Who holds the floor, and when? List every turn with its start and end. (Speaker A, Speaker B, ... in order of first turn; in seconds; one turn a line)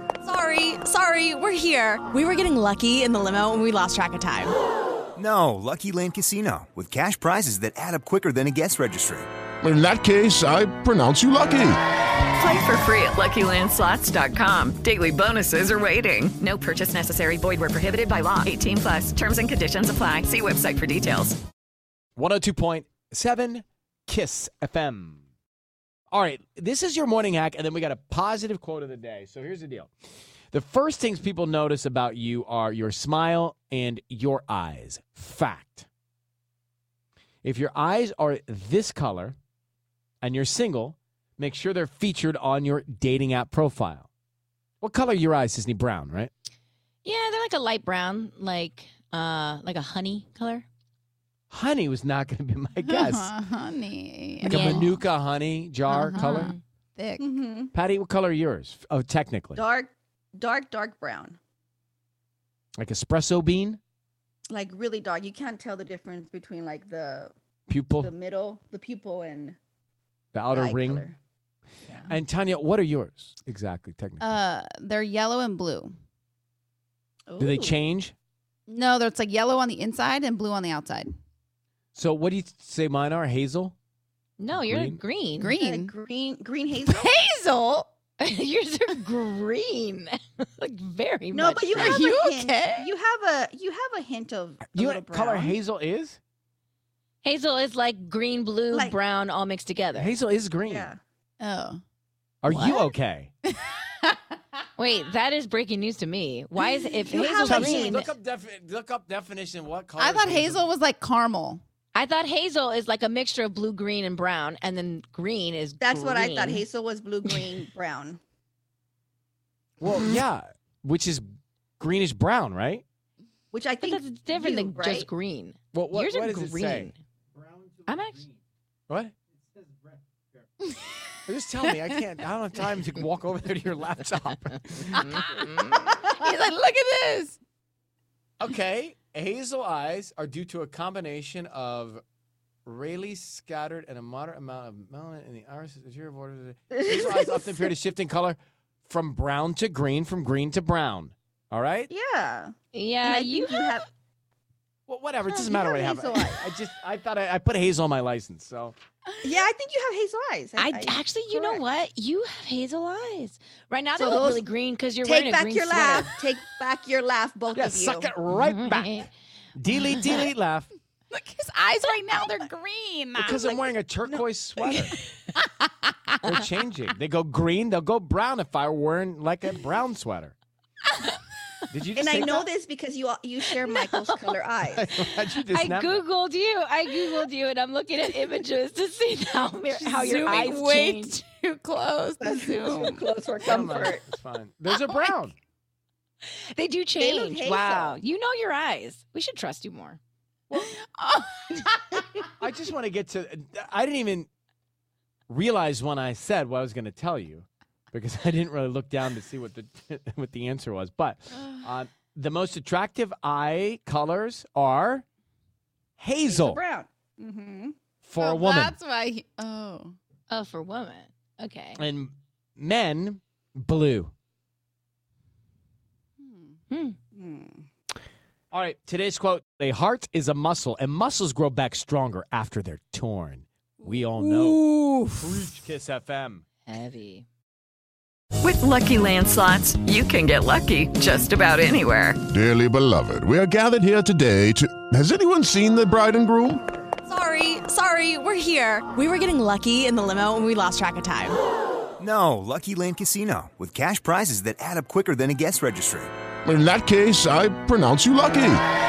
Speaker A: 0.2-4.5
Speaker B: 5.2-9.3
Speaker C: 9.6-11.8
Speaker D: 12.4-21.4
Speaker E: 22.2-25.2
Speaker E: 26.1-29.9
Speaker E: 30.5-35.9
Speaker E: 37.4-39.4
Speaker E: 40.2-44.1
Speaker E: 44.8-46.3
Speaker F: 47.0-50.6
Speaker E: 51.5-53.3
Speaker G: 52.8-54.9
Speaker F: 54.4-54.9
Speaker E: 54.5-56.5
Speaker G: 55.9-57.2
Speaker F: 56.1-56.6
Speaker H: 57.2-57.7
Speaker E: 57.7-59.6
Speaker H: 59.6-61.4
Speaker E: 62.8-63.8
Speaker H: 64.5-67.3
Speaker E: 67.7-68.1
Speaker H: 68.0-69.6
Speaker E: 70.3-71.1
Speaker H: 70.5-71.2
Speaker H: 71.9-72.1
Speaker E: 72.1-74.4
Speaker G: 74.2-75.9
Speaker H: 77.3-77.8
Speaker E: 77.4-78.1
Speaker G: 78.7-81.1
Speaker E: 82.0-83.8
Speaker F: 84.4-85.5
Speaker E: 84.5-85.0
Speaker G: 85.4-85.9
Speaker H: 85.5-87.1
Speaker G: 86.8-87.9
Speaker F: 88.2-92.0
Speaker H: 91.3-95.5
Speaker G: 91.8-92.9
Speaker E: 94.6-96.2
Speaker F: 97.2-100.1
Speaker H: 98.7-99.0
Speaker E: 100.0-100.9
Speaker H: 100.7-101.0
Speaker G: 101.4-101.8
Speaker E: 102.4-103.3
Speaker F: 102.5-102.9
Speaker G: 103.5-103.8
Speaker F: 104.8-108.1
Speaker H: 106.6-108.0
Speaker E: 107.4-110.7
Speaker G: 110.0-111.6
Speaker F: 111.9-116.6
Speaker H: 115.8-118.2
Speaker F: 117.3-117.6
Speaker E: 119.8-121.3
Speaker E: 121.8-122.8
Speaker H: 123.5-125.1
Speaker F: 123.8-126.9
Speaker E: 125.7-126.9
Speaker F: 127.9-128.3
Speaker E: 131.3-135.2
Speaker G: 134.9-137.4
Speaker F: 135.4-136.0
Speaker E: 138.4-142.0
Speaker E: 142.7-151.9
Speaker H: 146.9-147.4
Speaker H: 151.9-153.9
Speaker F: 152.7-153.8
Speaker E: 154.9-158.8
Speaker H: 155.3-156.4
Speaker G: 159.2-159.4
Speaker H: 159.2-161.6
Speaker F: 160.6-166.1
Speaker H: 164.0-164.5
Speaker H: 165.0-168.1
Speaker E: 167.5-170.7
Speaker F: 168.3-169.1
Speaker F: 169.9-170.2
Speaker G: 171.1-173.7
Speaker E: 173.2-175.0
Speaker G: 175.3-176.1
Speaker E: 176.2-180.3
Speaker E: 181.7-182.5
Speaker H: 182.0-184.8
Speaker F: 183.9-184.3
Speaker E: 184.7-186.0
Speaker F: 185.5-191.2
Speaker G: 189.7-193.1
Speaker H: 192.2-194.0
Speaker E: 193.4-195.4
Speaker F: 196.3-200.0
Speaker H: 197.0-198.0
Speaker G: 200.6-202.3
Speaker E: 202.4-204.3
Speaker E: 205.3-215.1
Speaker E: 216.0-216.6
Speaker H: 216.2-217.8
Speaker E: 218.0-218.8
Speaker G: 218.2-220.0
Speaker F: 220.3-221.8
Speaker E: 221.8-224.1
Speaker G: 226.2-226.6
Speaker F: 226.7-227.0
Speaker H: 227.2-227.7
Speaker E: 228.5-234.6
Speaker E: 235.2-236.4
Speaker F: 236.7-237.2
Speaker D: 238.4-242.2
Speaker C: 242.3-246.6
Speaker A: 247.1-251.4
Speaker B: 252.0-256.1
Speaker C: 256.4-258.6